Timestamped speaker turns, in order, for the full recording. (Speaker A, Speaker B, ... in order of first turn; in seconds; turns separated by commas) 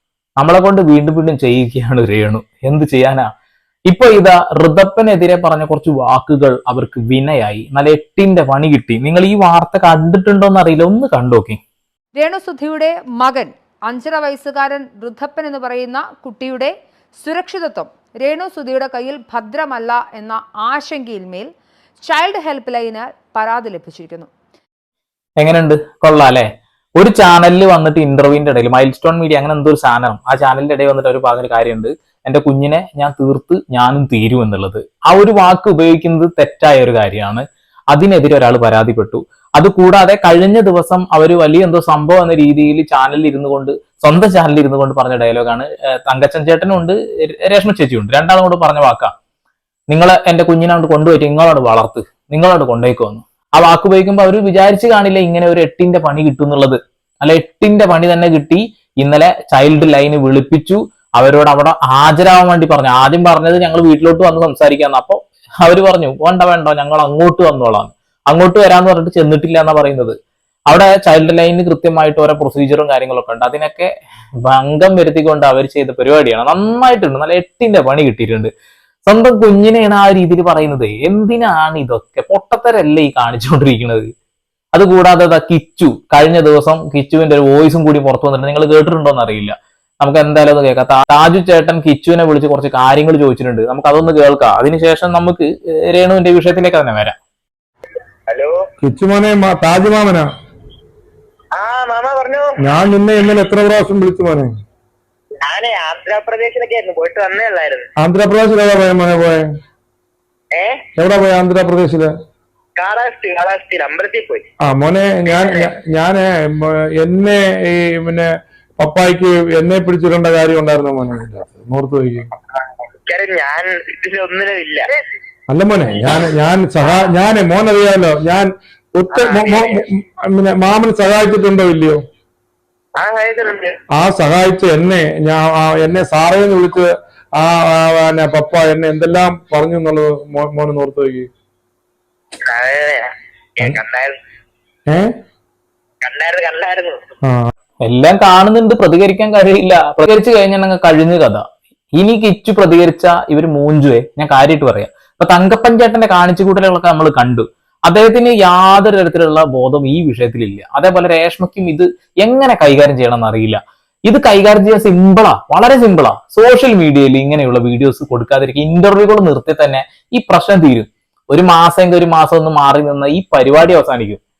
Speaker A: 0.4-3.3, Speaker A: 3.9-11.6, Speaker B: 12.1-21.5, Speaker B: 22.0-24.3, Speaker A: 25.4-49.1, Speaker A: 49.9-70.2, Speaker A: 70.7-73.9, Speaker A: 74.4-78.5, Speaker A: 79.1-84.1, Speaker A: 84.7-97.2, Speaker C: 98.3-98.5, Speaker D: 98.8-100.3, Speaker C: 101.5-102.5, Speaker D: 102.6-104.5, Speaker C: 105.4-107.9, Speaker D: 108.0-109.5, Speaker C: 110.5-110.8, Speaker D: 111.0-112.1, Speaker C: 112.8-114.5, Speaker D: 114.6-122.3, Speaker C: 115.3-115.5, Speaker C: 122.5-124.9, Speaker D: 125.5-132.0, Speaker C: 129.1-129.8, Speaker C: 133.0-133.8, Speaker D: 133.9-141.3, Speaker C: 142.5-144.1, Speaker D: 144.9-145.1, Speaker C: 146.0-147.0, Speaker A: 147.8-151.4, Speaker A: 151.9-174.2